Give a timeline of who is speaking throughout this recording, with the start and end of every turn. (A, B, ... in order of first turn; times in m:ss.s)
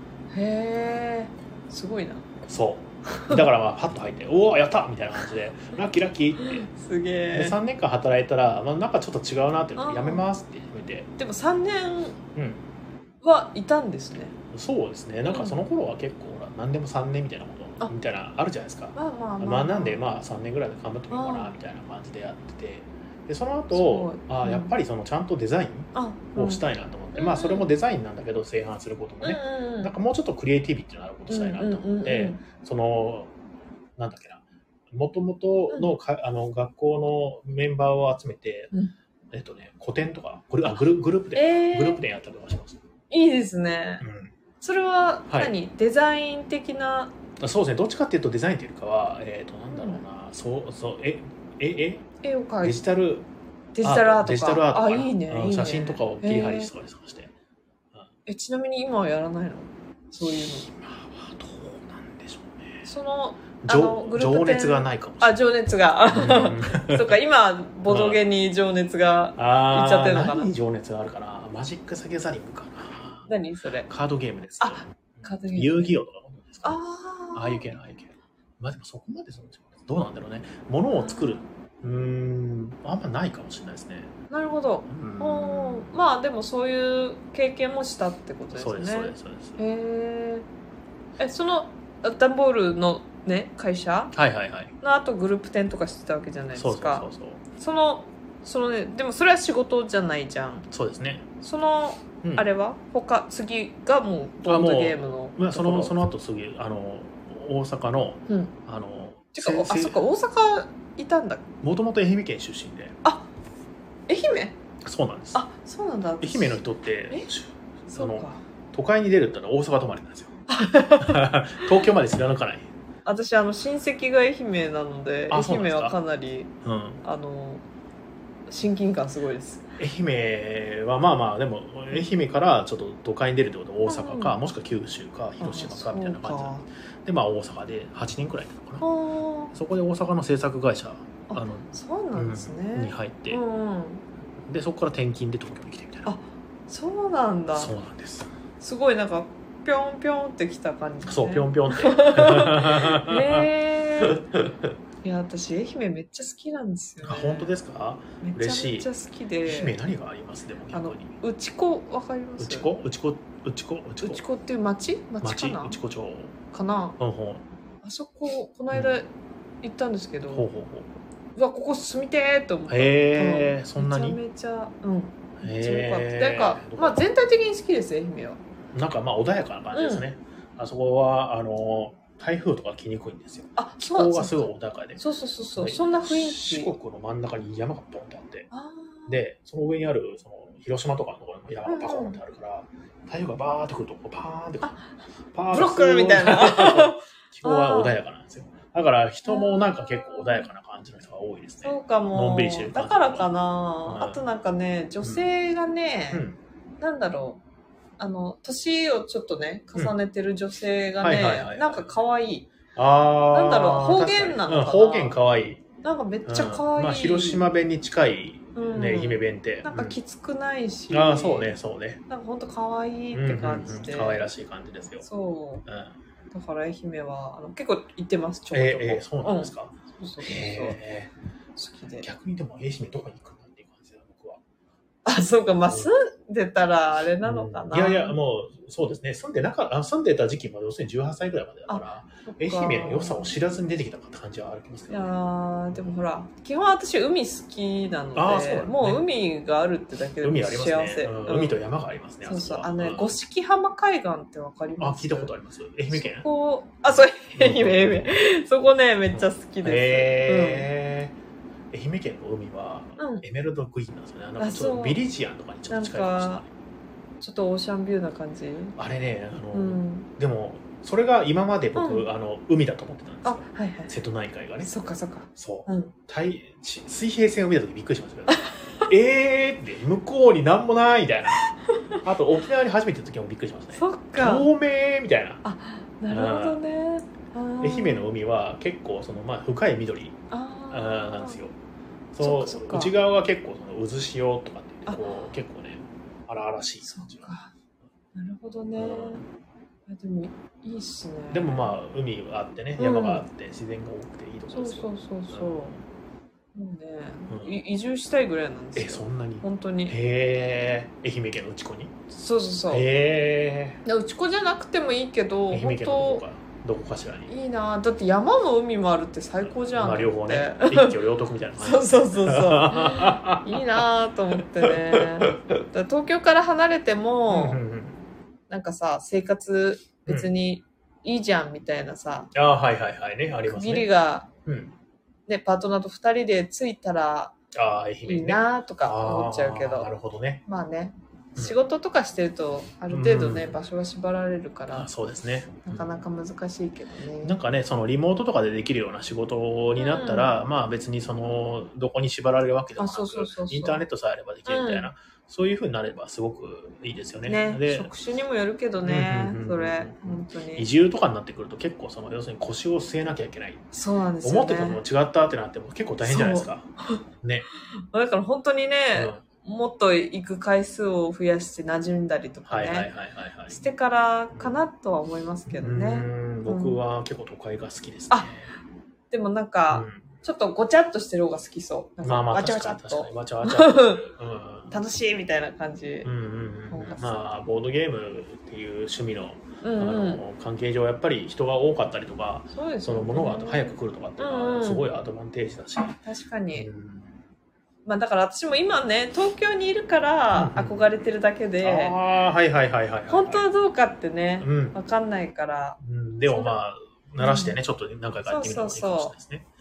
0:00.3-0:02.3 A
0:02.4-0:06.7 B
0:03.1-0:03.4 A
0:06.4-0:07.6 A
0:07.3-0:11.1 B
0:09.8-0:10.2 A
0:11.2-0:12.2 A
0:12.3-0:12.6 B
0:13.2-0:14.3 A
0:14.5-0:33.3 B
0:15.2-0:15.6 A
0:18.9-0:20.0 A
0:21.1-0:21.5 A
0:23.7-0:24.7 A
0:25.9-0:27.6 A
0:29.2-0:29.9 A
0:31.3-0:32.4 A
0:34.0-0:38.7 B
0:39.3-0:42.8 B
0:41.3-0:42.0 A
0:43.1-0:44.0 A
0:44.0-0:44.3 B
0:44.6-0:47.1 A
0:45.3-0:45.5 B
0:47.4-0:52.1 B
0:49.7-0:50.0 A
0:52.2-0:52.8 A
0:52.6-0:53.3 B
0:53.7-0:56.7 A
0:53.8-0:57.3 B
0:58.2-1:00.7 A
1:00.2-1:02.8 B
1:02.8-1:10.5 A
1:03.6-1:05.4 B
1:06.1-1:07.1 B
1:07.9-1:08.2 B
1:09.4-1:13.3 B
1:13.3-1:13.9 A
1:13.9-1:16.8 B
1:14.6-1:16.0 A
1:16.6-1:17.6 A
1:17.3-1:24.1 B
1:20.9-1:21.5 A
1:24.3-1:30.5 A
1:24.9-1:25.9 B
1:28.5-1:29.6 B
1:31.2-1:34.1 A
1:34.1-1:34.7 B
1:34.8-1:40.7 A
1:36.5-1:37.4 B
1:40.7-1:41.2 B
1:41.4-1:45.9 A
1:44.5-1:50.0 B
1:48.3-1:48.5 A
1:49.3-1:51.4 A
1:51.6-1:53.0 B
1:54.1-1:54.6 A
1:54.8-1:55.4 B
1:55.3-1:57.3 A
1:56.2-2:00.3 B
1:57.9-1:58.4 A
2:00.5-2:01.7 A
2:01.0-2:02.7 B
2:03.0-2:06.5 A
2:05.3-2:06.0 B
2:06.6-2:07.0 B
2:07.0-2:07.6 A
2:08.5-2:09.7 A
2:09.8-2:18.8 B
2:13.8-2:14.4 A
2:15.4-2:16.6 A
2:18.8-2:19.5 A
2:19.5-2:23.4 B
2:21.3-2:24.0 A
2:24.4-2:26.1 B
2:26.0-2:27.7 A
2:27.5-2:28.3 B
2:28.6-2:34.2 A
2:31.0-2:33.5 B
2:34.0-2:34.5 B
2:35.0-2:37.6 A
2:37.0-2:38.9 B
2:38.2-2:39.8 A
2:39.4-2:41.1 B
2:40.7-2:42.7 A
2:42.4-2:44.2 B
2:44.0-2:45.8 A
2:45.2-2:46.3 B
2:46.5-2:47.0 A
2:47.0-2:47.4 B
2:47.8-2:49.1 A
2:49.6-2:50.5 A
2:50.3-2:50.9 B
2:51.4-2:58.4 A
2:52.7-2:54.2 B
2:55.4-2:57.0 B
2:58.7-3:05.0 B
2:59.7-3:00.0 A
3:03.6-3:06.7 A
3:05.5-3:08.5 B
3:08.5-3:09.2 A
3:09.1-3:14.8 B
3:11.6-3:12.2 A
3:15.3-3:23.3 B
3:15.5-3:18.0 A
3:19.2-3:20.5 A
3:21.6-3:26.2 A
3:23.8-3:24.2 B
3:26.1-3:26.4 B
3:26.8-3:27.4 A
3:28.0-3:32.5 A
3:31.0-3:31.9 B
3:32.7-3:35.6 B
3:33.3-3:35.2 A
3:35.8-3:37.5 A
3:36.2-3:40.0 B
3:38.5-3:41.5 A
3:40.9-3:42.0 B
3:42.1-3:44.2 A
3:43.1-3:45.1 B
3:45.0-3:45.6 A
3:45.6-3:45.9 B
3:46.3-3:50.8 A
3:48.5-3:51.1 B
3:51.6-3:52.1 A
3:52.0-3:54.4 B
3:55.0-3:58.2 A
3:57.2-4:05.1 B
4:01.7-4:03.3 A
4:04.9-4:11.6 A
4:08.2-4:09.0 B
4:10.2-4:13.2 B
4:12.2-4:15.3 A
4:14.8-4:16.2 B
4:15.9-4:20.7 A
4:16.9-4:18.1 B
4:19.1-4:21.2 B
4:21.7-4:26.5 B
4:23.0-4:23.2 A
4:24.4-4:25.0 A
4:25.7-4:26.4 A
4:27.2-4:28.8 A
4:28.8-4:34.8 B
4:29.5-4:30.1 A
4:31.8-4:32.1 A
4:33.2-4:34.0 A
4:34.6-4:35.9 A
4:35.4-4:41.4 B
4:38.3-4:38.9 A
4:41.7-4:42.0 A
4:42.0-4:45.4 B
4:43.7-4:44.5 A
4:45.4-4:48.1 A
4:46.1-4:46.6 B
4:47.6-4:50.2 B
4:50.3-4:51.4 A
4:50.7-4:51.5 B
4:52.1-4:57.3 B
4:52.2-4:52.9 A
4:56.8-4:57.5 A
4:58.1-4:59.2 A
4:58.8-4:59.2 B
4:59.9-5:01.7 A
5:01.3-5:05.8 B
5:02.8-5:03.2 A
5:04.5-5:05.7 A
5:06.5-5:10.0 A
5:07.3-5:07.6 B
5:08.7-5:11.9 B
5:12.1-5:12.8 A
5:12.7-5:13.8 B
5:13.8-5:16.2 A
5:15.5-5:17.3 B
5:17.3-5:21.0 A
5:19.4-5:23.6 B
5:21.6-5:27.6 A
5:24.4-5:25.4 B
5:27.3-5:28.0 B
5:28.5-5:32.3 A
5:32.3-5:33.9 B
5:33.5-5:34.3 A
5:34.4-5:34.7 B
5:35.3-5:37.3 A
5:37.5-5:40.4 B
5:38.0-5:39.9 A
5:40.4-5:44.9 A
5:42.9-5:43.6 B
5:44.7-5:45.9 B
5:45.6-5:47.4 A
5:47.2-5:57.9 B
5:49.8-5:50.4 A
5:52.8-5:53.8 A
5:54.5-5:54.9 A
5:57.2-6:00.7 A
5:58.8-6:03.6 B
6:03.7-6:04.8 A
6:04.2-6:06.7 B
6:06.0-6:07.0 A
6:07.2-6:07.5 B
6:07.8-6:12.9 A
6:09.0-6:09.2 B
6:12.5-6:13.6 B
6:13.5-6:16.8 A
6:14.3-6:14.6 B
6:15.4-6:18.5 B
6:19.1-6:24.0 A
6:19.7-6:20.0 B
6:22.0-6:24.7 B
6:24.7-6:26.1 A
6:26.0-6:36.0 B
6:26.7-6:27.2 A
6:29.6-6:30.2 A
6:32.5-6:34.8 A
6:36.0-6:36.7 A
6:36.5-6:37.2 B
6:37.8-6:42.0 A
6:40.3-6:41.0 B
6:41.6-6:43.4 B
6:43.1-6:46.6 A
6:44.4-6:44.8 B
6:45.8-6:49.5 B
6:47.2-6:47.6 A
6:48.3-6:49.1 A